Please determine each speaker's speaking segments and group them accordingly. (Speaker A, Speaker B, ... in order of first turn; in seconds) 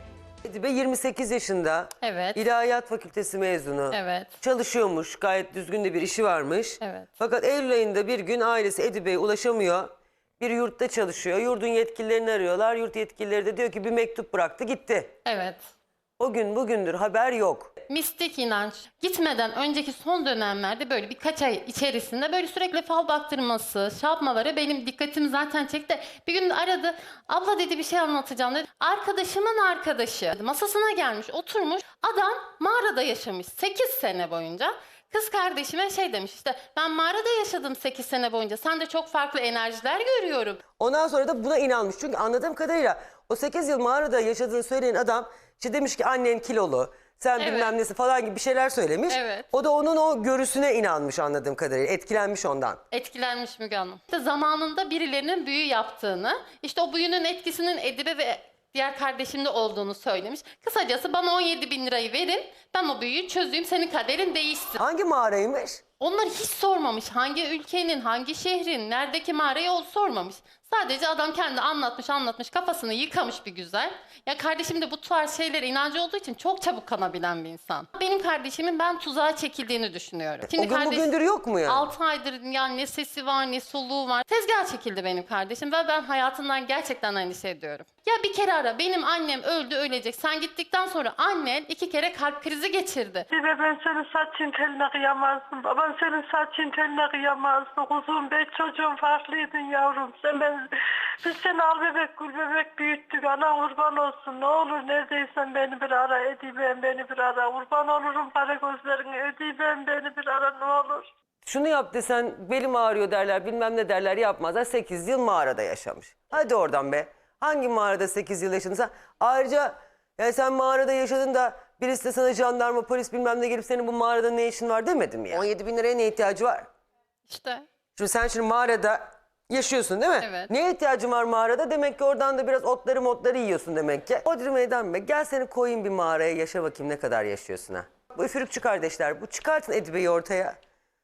Speaker A: 0.4-15.1, 16.2-17.7, 40.8-52.8, 64.8-65.8, 80.5-81.9, 111.5-126.7, 128.0-140.6
Speaker B: 2.0-2.4, 3.9-4.3, 6.8-7.1, 15.2-15.6, 17.9-40.6, 47.4-47.7, 49.1-49.5, 52.9-64.8, 66.0-81.1, 81.7-93.3, 127.3-127.7, 130.2-130.5
Speaker C: 93.3-100.7, 101.2-111.1